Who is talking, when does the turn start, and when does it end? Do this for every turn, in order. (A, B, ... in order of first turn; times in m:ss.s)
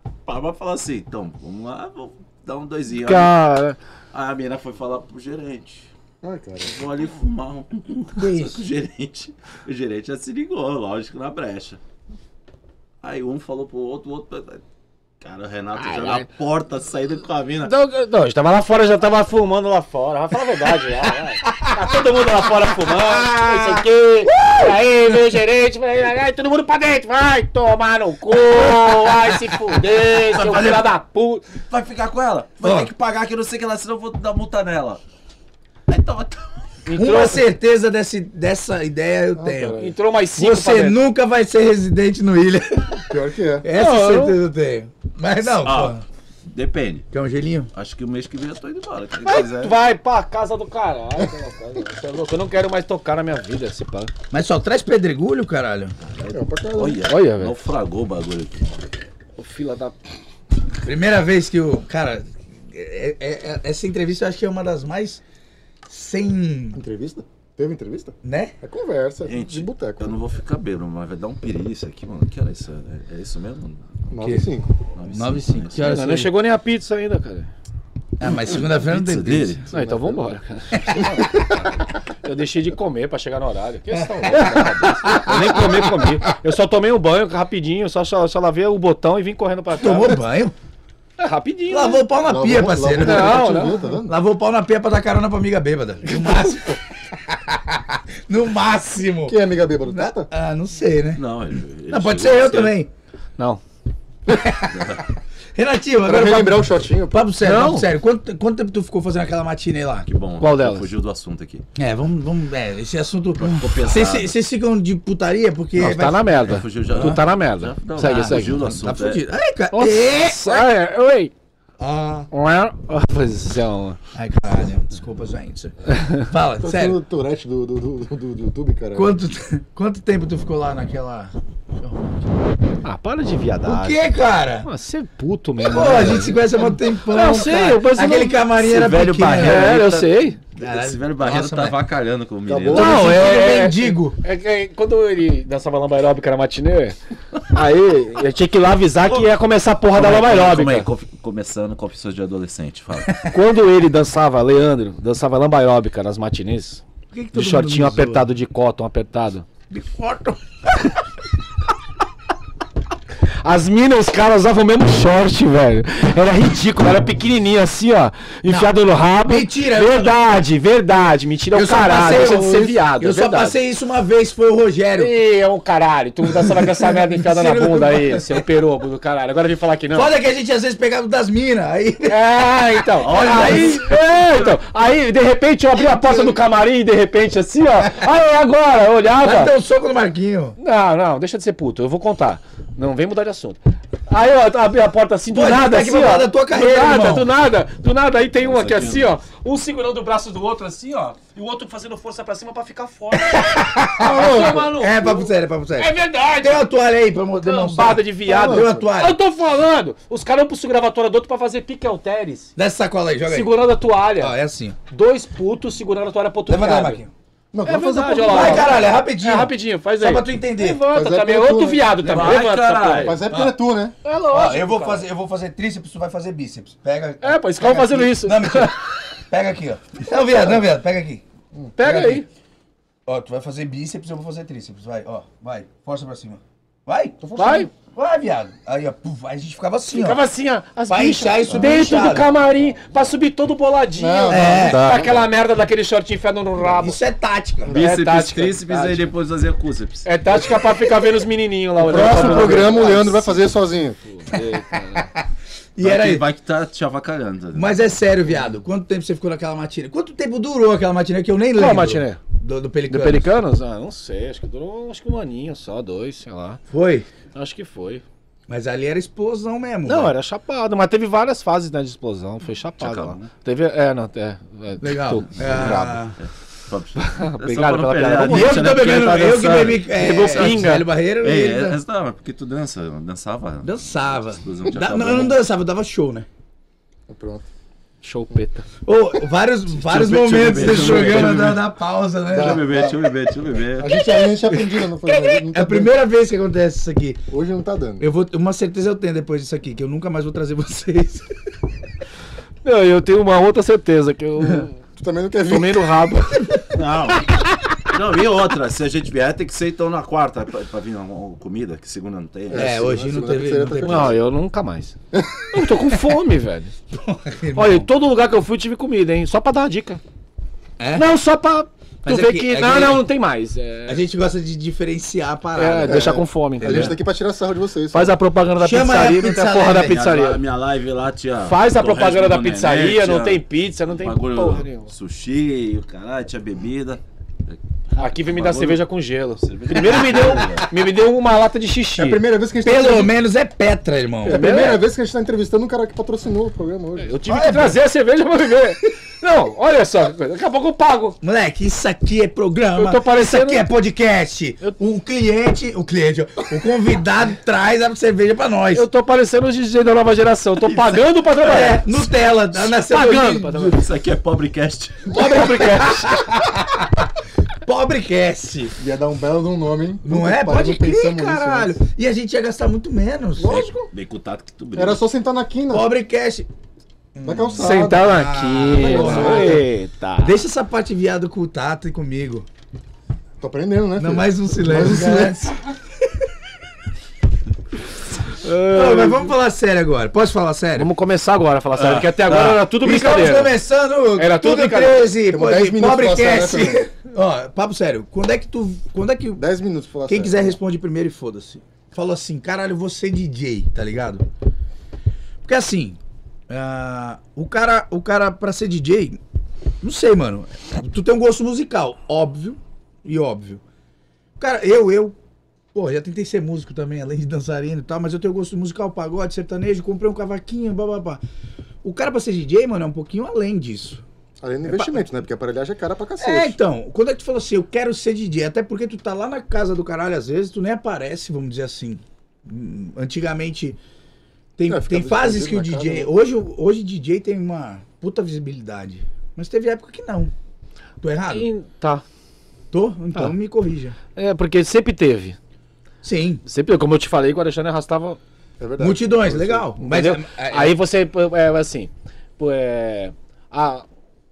0:00.3-0:03.3 A
0:03.0-0:03.8 B
0:04.1-0:05.9 A
0:06.2-0:06.8 C
0:06.6-0:11.8 A
0:08.2-0:08.6 D
0:13.0-0:14.6 A
0:15.2-0:17.7 A
0:15.8-0:16.3 B
0:17.6-0:31.5 B
0:21.4-0:22.0 D
0:22.9-0:25.2 D
0:28.5-0:29.4 D
0:30.0-0:30.9 A
0:31.7-0:35.0 A
0:32.6-0:32.9 D
0:35.9-0:36.7 A
0:36.9-0:37.4 B
0:36.9-0:39.8 D
0:39.4-0:40.0 C
0:39.8-0:41.0 B
0:40.4-0:43.1 D
0:43.1-0:43.7 C
0:43.6-0:46.0 D
0:43.7-0:44.4 B
0:45.6-0:46.0 A
0:46.5-0:47.1 A
0:47.1-0:47.7 D
0:47.7-0:49.8 A
0:49.2-0:54.1 B
0:54.3-0:56.0 D
0:56.0-0:58.7 A
0:56.3-0:57.0 C
0:57.1-0:57.5 B
0:59.4-1:00.0 B
1:00.8-1:05.2 D
1:05.9-1:06.8 D
1:06.8-1:10.1 C
1:08.2-1:08.6 D
1:09.3-1:13.8 A
1:14.1-1:14.7 C
1:14.2-1:14.5 D
1:14.9-1:16.0 A
1:15.1-1:16.3 D
1:15.8-1:17.5 B
1:18.2-1:19.6 D
1:18.2-1:19.7 A
1:19.7-1:21.6 C
1:19.7-1:21.7 B
1:20.8-1:21.2 D
1:22.2-1:30.2 B
1:23.9-1:26.2 D
1:29.8-1:30.5 D
1:31.2-1:32.1 B
1:31.7-1:41.2 D
1:32.3-1:34.1 C
1:33.0-1:33.8 B
1:39.3-1:40.3 C
1:41.2-1:42.8 A
1:41.9-1:42.9 D
1:44.3-1:45.0 D
1:44.7-1:45.0 A
1:45.6-1:50.1 D
1:46.0-1:47.3 C
1:47.4-1:47.9 B
1:50.1-1:51.6 A
1:50.4-1:50.9 B
1:51.8-1:56.4 D
1:53.4-1:54.4 A
1:55.8-1:58.6 B
1:56.4-1:59.2 A
1:56.9-1:57.2 D
1:58.0-2:00.7 D
1:59.7-2:01.3 B
2:01.8-2:02.3 D
2:02.3-2:04.0 B
2:04.1-2:07.0 D
2:05.9-2:06.2 B
2:06.6-2:09.1 C
2:08.9-2:12.6 D
2:12.8-2:14.1 B
2:13.6-2:14.7 D
2:14.6-2:18.4 B
2:15.6-2:19.8 D
2:18.6-2:23.1 A
2:19.4-2:20.4 B
2:20.6-2:21.8 D
2:22.5-2:23.2 C
2:22.7-2:24.2 D
2:22.7-2:27.0 B
2:27.5-2:30.9 B
2:29.1-2:29.3 A
2:29.9-2:33.2 A
2:33.3-2:36.8 B
2:37.1-2:38.3 D
2:37.3-2:39.5 B
2:39.7-2:40.4 D
2:43.4-2:53.6 B
2:48.5-2:50.1 D
2:51.5-2:55.1 D
2:55.0-3:00.1 B
2:56.2-2:58.4 D
2:59.9-3:03.8 D
3:02.1-3:09.5 B
3:03.0-3:04.6 A
3:05.8-3:06.3 D
3:09.2-3:10.6 D
3:10.6-3:26.7 B
3:15.3-3:17.3 D
3:18.4-3:19.1 A
3:23.1-3:29.2 D
3:24.0-3:24.6 C
3:27.4-3:32.5 B
3:28.3-3:28.8 C
3:32.6-3:33.6 D
3:33.3-3:34.4 B
3:34.2-3:34.8 D
3:34.9-3:37.0 B
3:36.5-3:37.1 D
3:37.5-3:38.9 C
3:37.6-3:43.2 B
3:38.2-3:40.8 D
3:40.9-3:42.4 C
3:42.0-3:43.3 A
3:43.0-3:44.0 C
3:43.3-3:43.6 D
3:44.0-3:45.0 B
3:44.3-3:51.2 D
3:47.2-3:48.8 B
3:51.8-3:52.3 B
3:51.8-3:52.2 D
3:53.1-4:00.2 D
3:57.2-3:57.7 C
3:57.4-3:57.7 B
3:59.9-4:07.0 B
4:00.9-4:02.3 D
4:04.0-4:05.3 C
4:04.3-4:05.0 D
4:06.8-4:07.8 D
4:07.7-4:09.1 B
4:07.7-4:10.1 A
4:10.0-4:15.1 B
4:11.8-4:14.0 C
4:12.0-4:12.7 D
4:12.0-4:12.8 A
4:14.3-4:16.3 D
4:15.8-4:17.9 A
4:17.5-4:23.3 D
4:21.6-4:22.2 B
4:22.9-4:26.6 B
4:26.7-4:27.1 D
4:27.3-4:28.0 B
4:28.5-4:30.1 D
4:29.9-4:36.0 B
4:32.8-4:33.3 A
4:34.8-4:36.2 D
4:35.5-4:40.6 A
4:37.0-4:40.9 B
4:38.3-4:41.8 D
4:41.2-4:45.4 A
4:43.6-4:46.3 D
4:47.1-4:47.5 C
4:48.0-4:48.7 B
4:48.8-4:52.7 D
4:49.8-4:51.6 A
4:52.3-4:53.0 C
4:52.3-4:54.0 A
4:53.8-4:55.9 C
4:53.9-4:57.2 D
4:57.3-4:58.0 C
4:58.0-5:01.3 D
5:02.6-5:04.8 B
5:05.0-5:06.0 C
5:05.5-5:06.6 B
5:06.7-5:12.9 A
5:12.5-5:14.2 C
5:12.5-5:14.2 D
5:13.8-5:15.0 B
5:15.1-5:15.6 C
5:15.5-5:16.7 B
5:16.9-5:17.9 D
5:17.6-5:20.0 B
5:20.8-5:21.1 D
5:21.0-5:24.0 B
5:22.0-5:23.1 D
5:23.9-5:26.9 D
5:25.6-5:27.0 B
5:25.9-5:28.2 C
5:27.9-5:30.4 B
5:28.6-5:30.0 D
5:29.7-5:38.8 A
5:31.4-5:34.9 B
5:38.0-5:42.2 B
5:39.4-5:40.7 A
5:42.0-5:43.1 C
5:42.6-5:44.5 D
5:44.2-5:47.2 C
5:44.3-5:44.8 B
5:47.0-5:51.2 B
5:47.3-5:47.8 D
5:51.2-5:58.9 D
5:52.8-5:53.7 B
5:58.7-6:01.8 B
6:00.6-6:01.2 A
6:01.4-6:03.8 D
6:02.5-6:03.8 B
6:03.8-6:05.1 A
6:05.1-6:06.2 B
6:05.1-6:07.1 D
6:07.6-6:08.8 D
6:08.8-6:11.7 C
6:10.0-6:13.7 D
6:13.4-6:13.9 C
6:13.9-6:15.0 A
6:14.8-6:15.9 C
6:15.7-6:16.5 D
6:17.2-6:19.7 D
6:17.2-6:18.2 C
6:17.6-6:20.4 B
6:18.7-6:19.6 C
6:20.2-6:22.5 D
6:23.4-6:25.4 C
6:24.0-6:26.3 D
6:28.4-6:29.3 B
6:28.7-6:30.9 D
6:30.8-6:33.6 B
6:31.8-6:32.6 A
6:32.4-6:39.5 D
6:34.2-6:35.1 B
6:35.3-6:36.8 C
6:39.4-6:40.6 C
6:40.1-6:44.3 D
6:45.4-6:49.2 D
6:49.8-6:53.6 D
6:54.4-6:55.2 D
6:55.7-7:01.2 D
7:01.8-7:04.0 D
7:04.4-7:06.6 C
7:04.6-7:05.2 D
7:06.2-7:13.8 D
7:14.6-7:20.3 D
7:14.7-7:16.1 C
7:21.0-7:21.5 D
7:21.3-7:22.0 B
7:22.7-7:24.0 D
7:24.2-7:25.4 B
7:26.0-7:26.4 D
7:26.4-7:28.2 B
7:28.6-7:29.8 C
7:28.8-7:30.8 D
7:29.8-7:33.9 B